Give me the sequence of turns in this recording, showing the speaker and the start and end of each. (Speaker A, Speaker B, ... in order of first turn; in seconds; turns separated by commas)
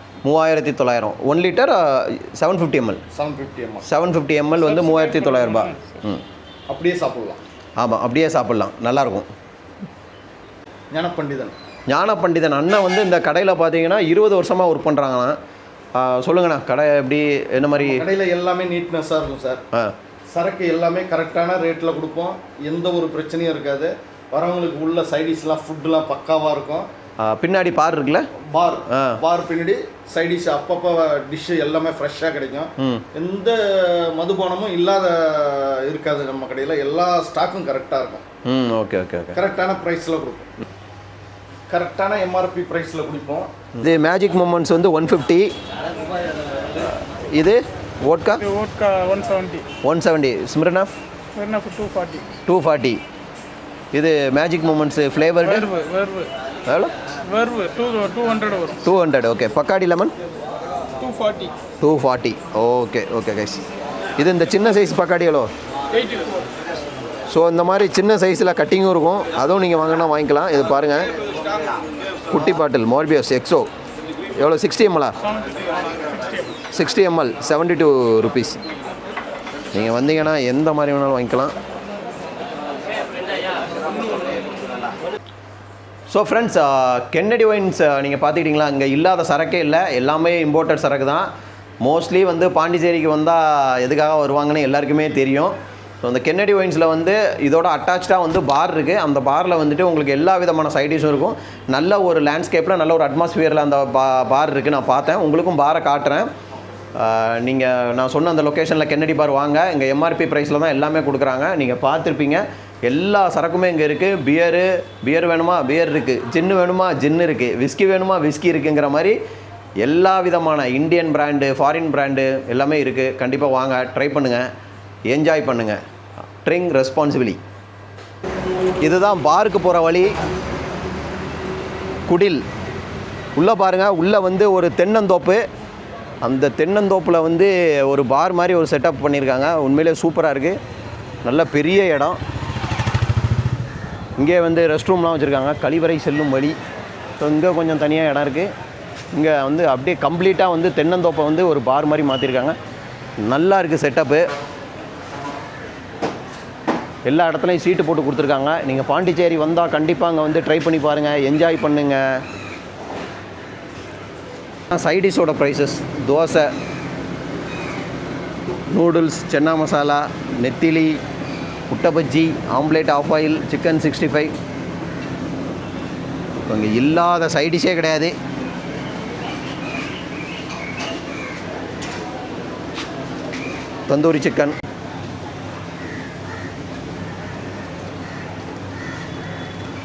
Speaker A: 0.2-3.0, Speaker B: 3.1-3.9, Speaker A: 3.8-6.2, Speaker C: 4.5-6.0, Speaker B: 6.7-7.4, Speaker A: 7.8-9.3, Speaker B: 10.9-11.5, Speaker A: 11.9-15.3, Speaker A: 15.9-18.0, Speaker B: 17.8-19.6, Speaker B: 20.3-26.9, Speaker A: 27.2-28.3, Speaker B: 28.5-38.2, Speaker A: 28.9-29.2, Speaker A: 32.8-33.0, Speaker A: 38.4-39.4, Speaker B: 39.3-40.5, Speaker B: 41.7-43.5, Speaker A: 43.8-45.5, Speaker A: 46.7-48.4, Speaker C: 48.4-49.6, Speaker A: 49.8-50.9, Speaker C: 51.3-52.3, Speaker A: 52.5-53.0, Speaker A: 53.9-55.7, Speaker C: 55.4-56.3, Speaker A: 56.6-56.9, Speaker C: 57.2-58.9, Speaker A: 58.8-60.1, Speaker C: 61.0-61.5, Speaker A: 61.8-63.6, Speaker A: 64.2-65.5, Speaker C: 65.9-66.5, Speaker A: 67.3-71.2, Speaker A: 72.3-73.7, Speaker A: 74.3-75.1, Speaker C: 75.2-76.6, Speaker A: 76.7-78.6, Speaker A: 79.7-81.5, Speaker A: 86.1-91.3, Speaker A: 91.8-106.3, Speaker A: 106.9-119.2, Speaker A: 119.8-124.5, Speaker A: 125.1-125.8, Speaker A: 126.4-127.4, Speaker A: 128.8-130.1, Speaker A: 132.1-132.4, Speaker A: 133.3-135.4, Speaker A: 136.2-140.6, Speaker A: 141.2-142.2, Speaker A: 144.2-146.6, Speaker A: 147.2-148.5, Speaker A: 149.1-152.6, Speaker A: 153.2-154.2, Speaker A: 157.1-162.2, Speaker A: 164.7-166.5, Speaker A: 168.7-171.0, Speaker A: 171.7-174.3, Speaker A: 176.4-178.1, Speaker A: 183.9-184.6